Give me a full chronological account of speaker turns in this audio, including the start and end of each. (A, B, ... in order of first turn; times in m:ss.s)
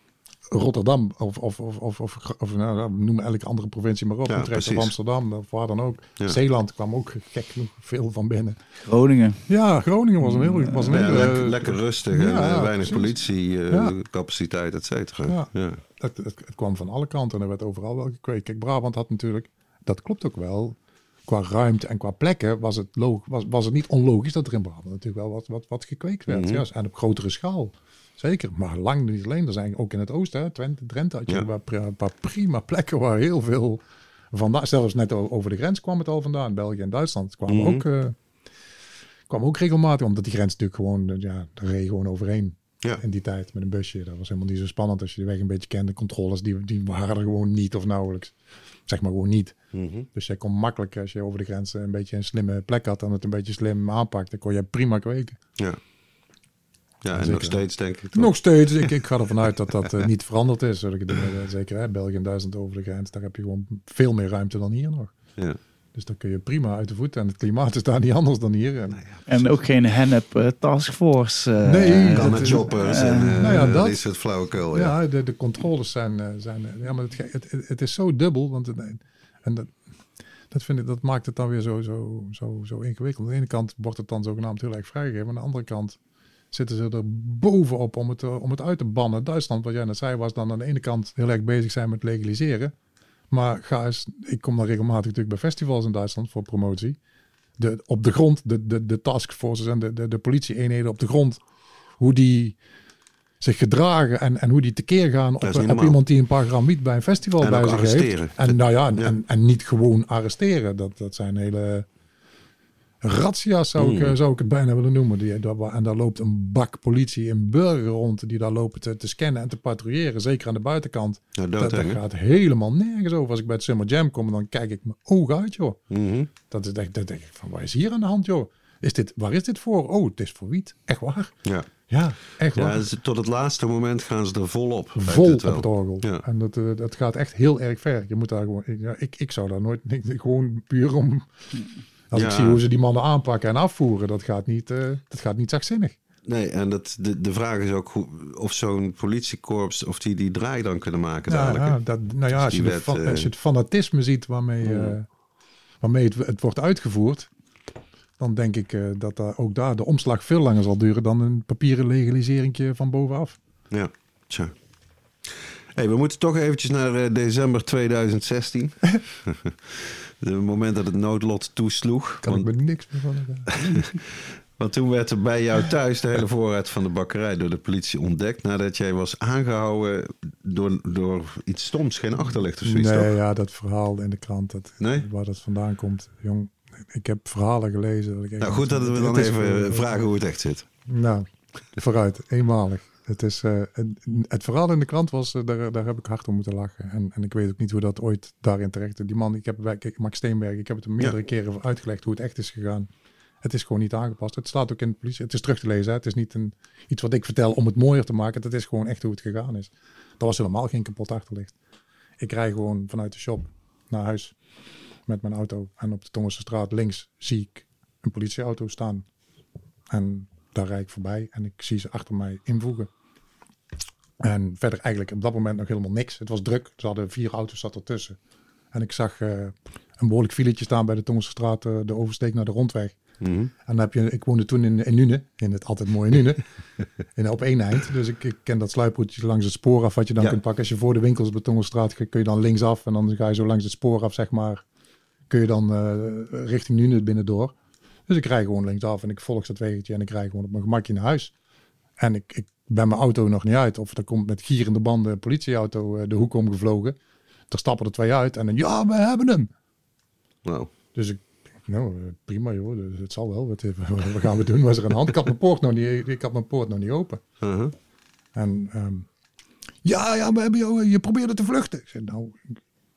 0:00.5-0:08.6 A
0:04.3-0:04.9 B
0:08.8-0:09.5 C
0:09.5-0:13.1 A
0:10.2-0:11.0 C
0:10.8-0:15.8 B
0:15.3-0:33.8 A
0:26.3-0:26.6 B
0:34.3-0:38.2 A
0:37.5-0:37.8 B
0:39.3-0:48.3 A
0:48.9-0:49.6 A
0:49.7-0:50.1 B
0:50.1-0:55.4 A
0:57.0-0:58.3 B
0:57.1-0:57.6 A
0:58.1-1:05.1 A
1:05.9-1:09.0 A
1:08.9-1:09.5 B
1:09.3-1:13.7 C
1:11.6-1:12.7 A
1:12.1-1:14.9 B
1:13.4-1:14.0 A
1:14.7-1:19.8 A
1:20.5-1:26.0 A
1:26.5-1:32.7 A
1:33.3-1:37.0 A
1:37.6-1:41.4 A
1:42.0-1:42.6 A
1:43.4-1:51.9 A
1:45.4-1:46.0 B
1:47.4-1:49.1 B
1:53.0-2:05.8 A
1:53.8-1:54.1 B
2:01.4-2:02.0 B
2:05.9-2:06.3 B
2:06.5-2:11.3 A
2:11.9-2:12.8 A
2:12.5-2:16.2 B
2:15.0-2:21.3 A
2:22.1-2:26.0 A
2:22.1-2:22.6 B
2:26.2-2:33.3 B
2:31.3-2:35.0 A
2:34.6-2:34.9 B
2:35.8-2:37.3 A
2:38.2-2:43.4 A
2:43.7-2:44.5 B
2:45.7-2:52.5 B
2:52.2-2:53.8 A
2:53.5-2:54.0 B
2:54.6-3:03.1 B
3:02.6-3:10.0 A
3:04.8-3:05.1 B
3:08.4-3:10.6 B
3:10.9-3:22.9 A
3:23.4-3:31.5 A
3:32.2-3:34.3 A
3:35.0-3:39.0 A
3:39.9-3:42.9 A
3:44.2-3:48.2 A
3:48.7-3:53.0 A
3:53.2-3:53.5 B
3:53.6-3:56.4 A
3:57.2-4:04.6 A
4:05.3-4:07.5 A
4:08.1-4:11.3 A
4:12.0-4:17.0 A
4:17.5-4:19.5 A
4:20.4-4:20.7 B
4:20.9-4:27.2 A
4:27.4-4:27.7 B
4:28.3-4:29.1 A
4:29.8-4:32.5 A